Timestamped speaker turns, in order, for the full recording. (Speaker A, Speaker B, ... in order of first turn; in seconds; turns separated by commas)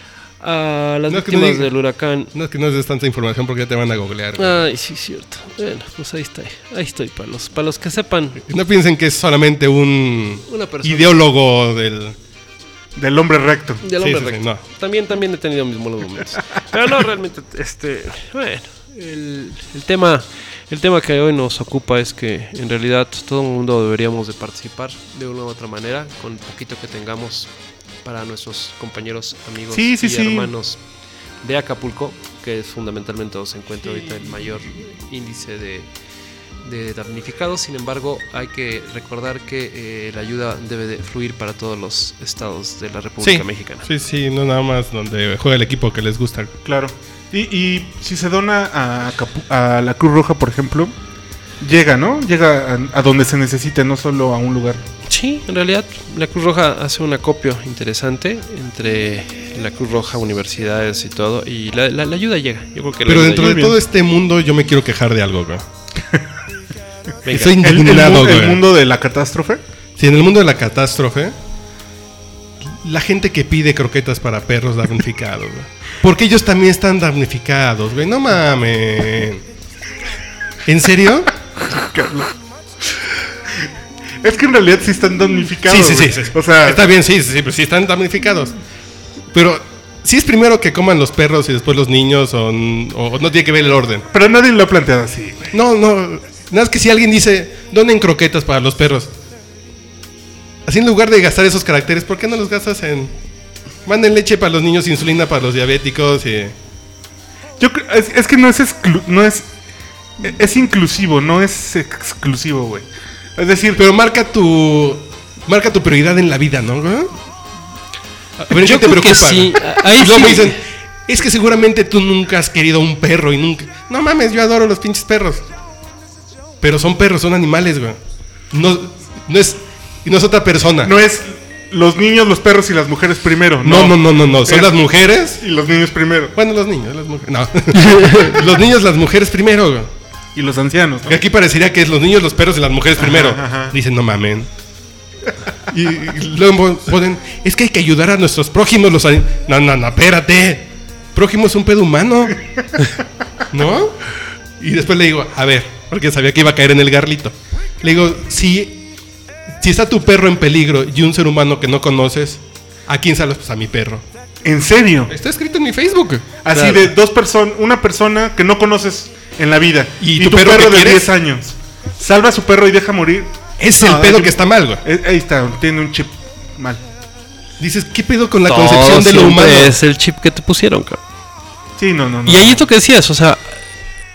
Speaker A: 0.4-2.3, Speaker B: 1.1-1.7, Speaker B: 2.3-4.6, Speaker A: 4.4-8.4, Speaker B: 8.4-12.2, Speaker A: 10.5-11.2, Speaker C: 13.0-13.8, Speaker A: 13.8-27.5, Speaker B: 14.0-14.6, Speaker A: 28.0-30.8, Speaker C: 29.7-30.5, Speaker A: 31.4-35.9, Speaker A: 36.6-43.9, Speaker B: 43.2-46.5, Speaker C: 46.6-50.9, Speaker C: 51.6-54.8, Speaker A: 55.1-63.7, Speaker B: 63.1-65.7, Speaker C: 63.3-63.7, Speaker A: 67.2-67.6, Speaker B: 67.3-68.6, Speaker C: 67.4-69.6, Speaker B: 70.0-71.4, Speaker B: 72.6-79.4, Speaker B: 80.7-81.3, Speaker C: 81.7-82.3, Speaker C: 84.2-86.9, Speaker B: 85.7-88.6, Speaker B: 89.3-94.1, Speaker C: 94.1-95.5, Speaker B: 95.5-99.1, Speaker B: 100.7-103.1, Speaker B: 103.9-106.5, Speaker C: 107.6-109.5, Speaker C: 110.2-113.8, Speaker B: 113.8-117.1, Speaker B: 118.4-125.5, Speaker A: 118.5-120.6, Speaker B: 126.6-128.0, Speaker B: 128.5-131.0, Speaker C: 130.8-134.8, Speaker B: 133.6-135.4, Speaker C: 135.4-136.3, Speaker B: 136.3-139.9, Speaker C: 140.3-141.2, Speaker B: 141.1-144.5, Speaker C: 143.0-143.8, Speaker B: 145.7-152.4, Speaker C: 152.5-152.8, Speaker B: 153.5-158.8, Speaker B: 159.6-164.0, Speaker C: 164.4-165.1, Speaker B: 165.1-166.4, Speaker C: 166.4-176.8, Speaker B: 170.0-171.1, Speaker B: 173.6-174.8, Speaker B: 177.6-179.8, Speaker A: 178.5-181.0, Speaker C: 181.8-182.7, Speaker A: 182.3-183.6